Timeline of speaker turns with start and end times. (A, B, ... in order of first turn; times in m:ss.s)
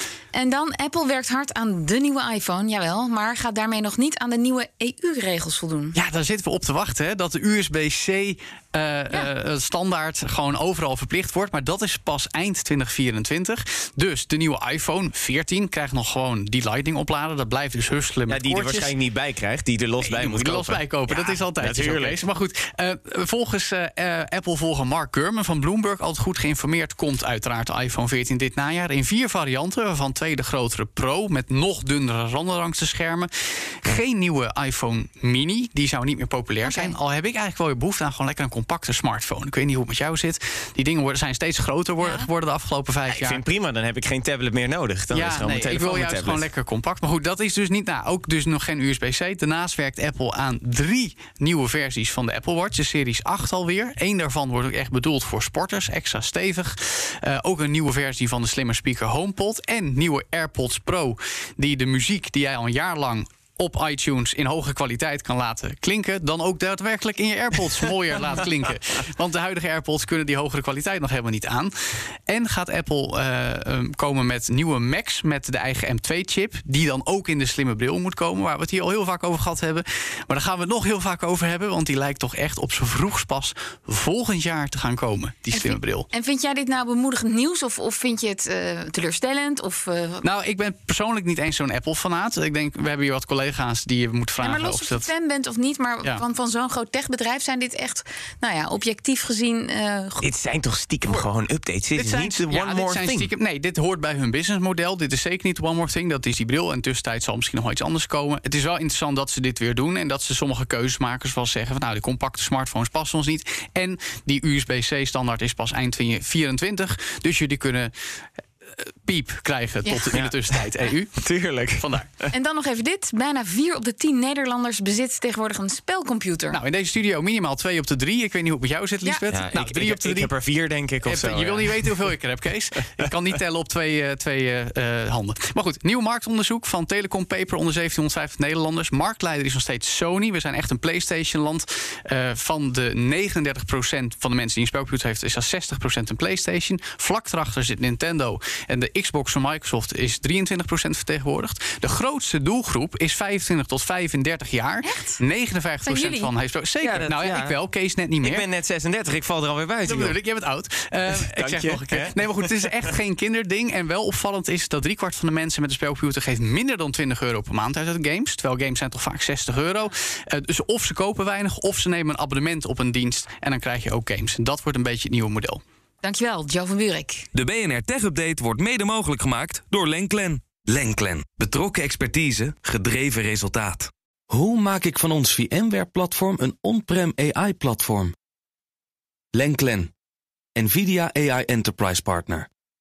0:00.3-0:06.0 A
0:05.9-0:19.0 B
0:18.3-0:22.2 C
0:20.0-0:43.4 B
0:36.6-0:36.9 A
0:42.0-0:42.3 A
0:43.1-0:46.4 C
0:45.1-1:26.1 B
1:25.5-1:30.2 A
1:30.2-1:35.1 B
1:34.4-1:40.3 A
1:40.2-1:43.3 C
1:41.9-1:57.9 B
1:58.6-2:02.1 B
2:00.1-2:00.6 C
2:01.2-2:02.3 C
2:02.3-2:06.6 A
2:06.5-2:10.3 B
2:09.0-2:09.3 A
2:09.3-2:12.0 C
2:11.0-2:38.4 B
2:34.8-2:35.2 A
2:35.8-2:36.3 A
2:36.8-2:37.6 C
2:38.2-2:40.2 C
2:39.8-2:55.6 B
2:41.2-2:42.5 C
2:56.0-2:57.3 A
2:57.3-3:08.1 D
3:09.3-3:09.9 D
3:10.6-3:12.5 D